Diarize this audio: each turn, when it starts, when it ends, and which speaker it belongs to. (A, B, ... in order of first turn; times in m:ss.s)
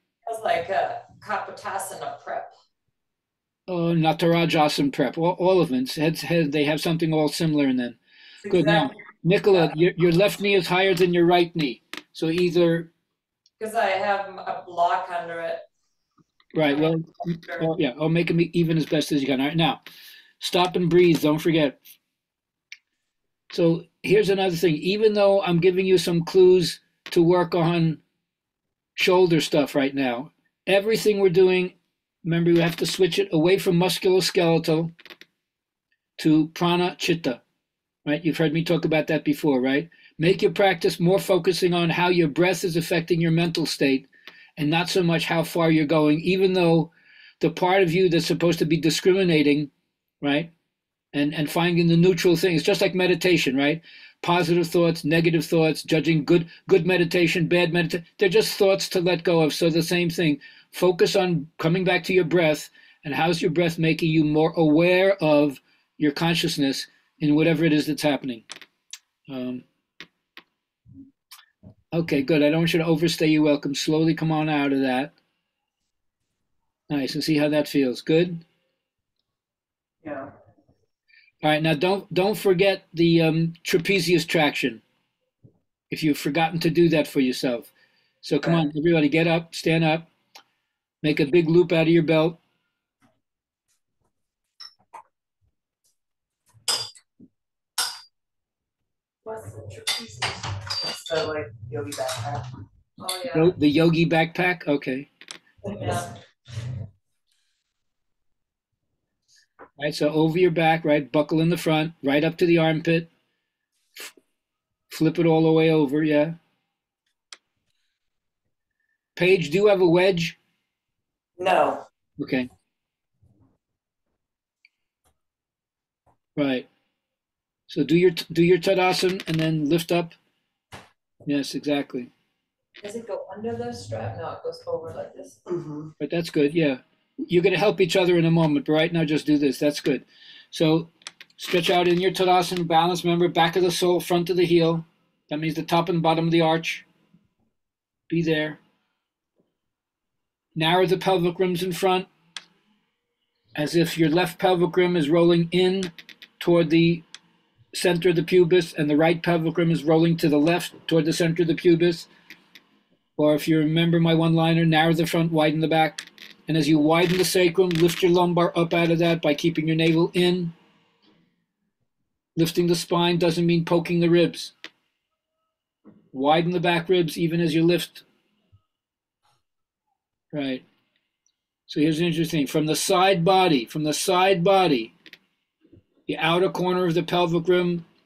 0:00.2-0:02.5 A
0:03.7-0:12.9 B
0:08.5-0:08.8 C
0:13.6-0:15.6 A
0:16.5-0:19.8 B
0:16.6-0:17.7 A
0:20.4-0:21.8 B
0:23.5-0:28.0 B
0:29.0-0:34.9 B
0:36.2-0:37.4 B
0:38.1-0:50.5 B
0:51.1-1:08.4 B
1:09.3-1:09.6 B
1:11.9-1:15.1 B
1:16.9-1:18.4 B
1:20.0-1:20.3 C
1:21.4-1:24.8 B
1:25.9-1:27.7 B
1:28.2-1:30.1 B
1:28.4-1:28.7 C
1:31.0-1:32.4 B
1:39.2-1:40.6 A
1:40.8-1:42.5 C
1:43.0-1:43.5 A
1:43.3-1:45.1 B
1:45.7-1:46.1 A
1:49.8-1:53.1 B
1:54.9-1:56.4 B
1:59.2-2:00.4 B
2:01.4-2:01.8 C
2:02.2-2:02.5 B
2:06.4-2:06.7 B
2:07.7-2:10.2 B
2:11.2-2:12.1 B
2:12.8-2:15.4 A
2:15.5-2:15.9 C
2:16.0-2:26.9 B
2:28.1-2:28.6 B
2:30.6-2:32.1 B
2:33.6-2:37.0 B
2:37.7-2:42.1 B
2:43.2-2:50.5 B
2:52.4-2:54.5 B
2:56.1-2:58.0 B
3:00.3-3:00.6 B
3:01.7-3:04.9 B
3:06.1-3:07.9 B